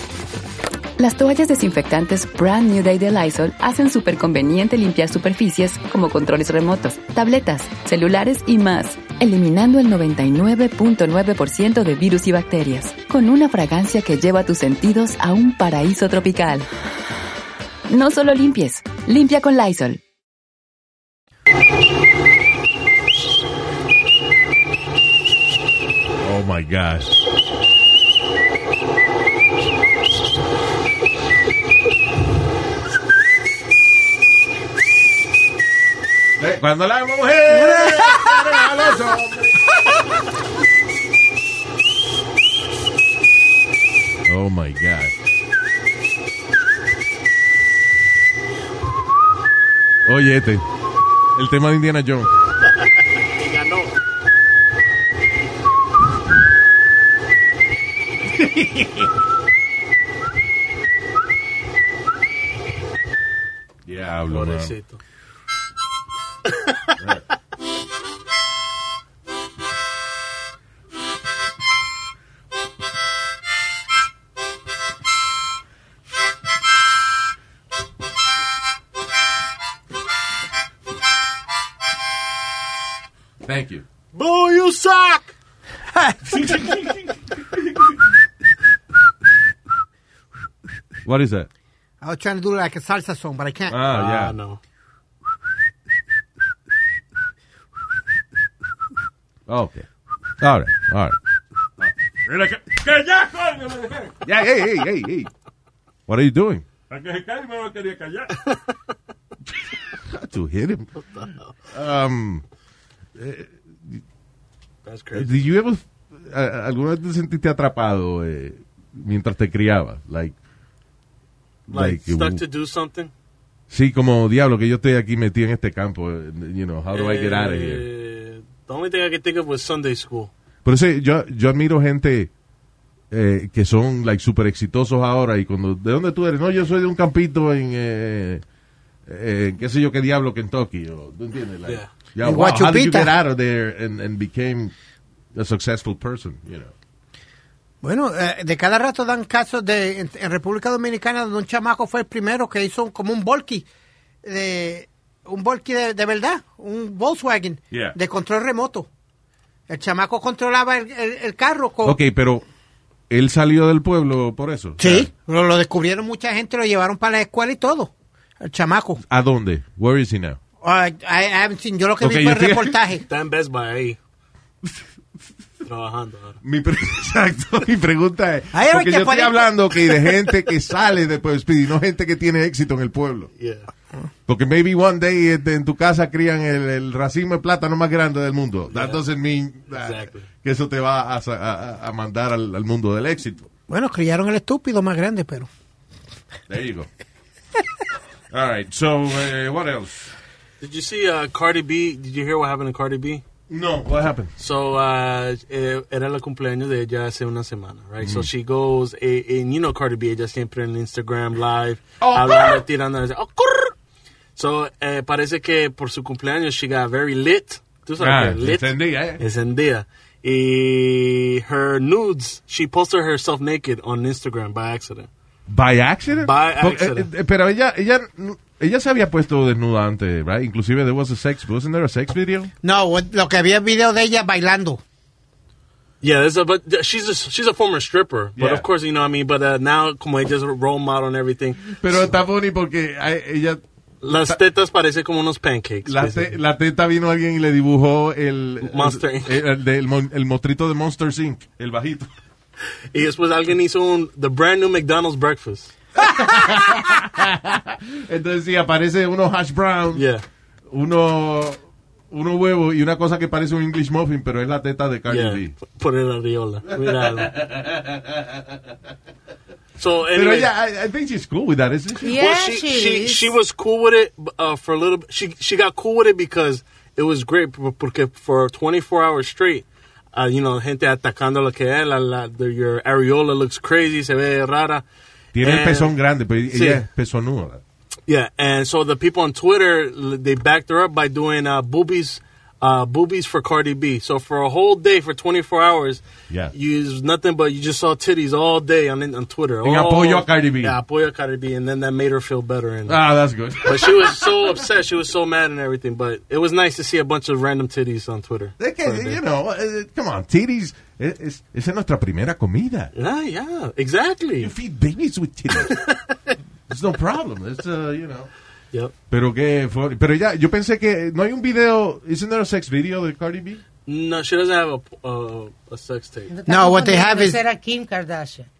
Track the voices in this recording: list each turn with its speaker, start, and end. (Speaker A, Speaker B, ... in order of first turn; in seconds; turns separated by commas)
Speaker A: 1.0-16.7, Speaker A: 17.9-20.0, Speaker B: 26.2-27.2, Speaker B: 36.4-39.7, Speaker C: 37.5-38.5, Speaker B: 44.2-45.1, Speaker B: 50.0-50.7, Speaker B: 51.3-52.3, Speaker D: 52.7-53.9, Speaker B: 58.3-59.1, Speaker B: 63.8-64.7, Speaker D: 64.3-65.0, Speaker D: 66.5-67.0, Speaker B: 83.4-83.8, Speaker D: 84.1-85.3, Speaker C: 85.9-86.5, Speaker B: 86.2-87.9, Speaker B: 91.0-91.5, Speaker C: 92.0-93.8, Speaker B: 93.7-94.3, Speaker D: 93.9-94.6, Speaker B: 99.5-101.2, Speaker E: 102.2-104.2, Speaker B: 104.2-105.3, Speaker B: 106.1-106.7, Speaker E: 106.9-108.4, Speaker B: 109.9-110.9, Speaker D: 111.0-111.5, Speaker B: 111.7-112.4, Speaker B: 113.2-114.0, Speaker D: 114.8-115.5, Speaker B: 115.1-120.3, Speaker B: 121.7-122.4, Speaker D: 121.7-123.1, Speaker B: 123.7-127.8, Speaker D: 126.9-130.3, Speaker B: 130.6-132.3, Speaker B: 133.1-138.4, Speaker B: 139.1-144.7, Speaker D: 141.7-141.9, Speaker C: 142.2-143.1, Speaker B: 145.3-146.7, Speaker C: 147.8-153.6, Speaker C: 154.2-158.9, Speaker C: 159.7-162.0, Speaker B: 161.8-162.4, Speaker B: 163.1-165.1, Speaker C: 164.8-169.0, Speaker B: 169.0-170.4, Speaker C: 170.6-173.0, Speaker B: 172.0-172.8, Speaker D: 173.1-174.0, Speaker D: 175.6-176.4, Speaker B: 176.4-183.3, Speaker C: 178.5-180.1, Speaker D: 183.4-183.7, Speaker B: 184.3-193.5, Speaker D: 188.7-189.0, Speaker D: 189.7-190.3, Speaker C: 193.7-195.5, Speaker B: 196.5-196.9, Speaker B: 198.3-200.1, Speaker D: 200.6-203.2, Speaker B: 203.5-204.3, Speaker D: 204.4-213.7, Speaker B: 208.0-208.3, Speaker B: 212.0-212.6, Speaker D: 214.3-225.1, Speaker B: 218.0-219.2, Speaker B: 225.5-232.5, Speaker D: 226.2-227.1, Speaker C: 232.6-234.8, Speaker D: 236.0-242.1, Speaker B: 238.3-238.7, Speaker B: 241.7-244.4, Speaker D: 244.0-246.3, Speaker B: 245.8-252.1, Speaker D: 248.6-249.4, Speaker D: 252.9-255.7, Speaker B: 256.0-260.0, Speaker D: 259.9-260.2, Speaker B: 260.7-265.5, Speaker D: 265.1-267.3, Speaker B: 266.7-268.6, Speaker D: 269.8-270.5, Speaker B: 270.1-272.2, Speaker F: 272.0-273.3, Speaker D: 272.1-284.8, Speaker B: 285.3-287.6, Speaker D: 285.4-285.9, Speaker D: 286.5-286.8, Speaker D: 288.1-303.0, Speaker B: 296.3-296.5, Speaker B: 299.6-300.8, Speaker B: 302.9-304.6, Speaker D: 303.6-309.2, Speaker B: 308.6-312.9, Speaker D: 312.9-314.5, Speaker B: 314.4-315.8, Speaker D: 315.7-316.1, Speaker B: 316.7-318.3, Speaker B: 319.1-323.6, Speaker D: 323.9-326.3, Speaker F: 326.3-328.5, Speaker C: 326.5-327.4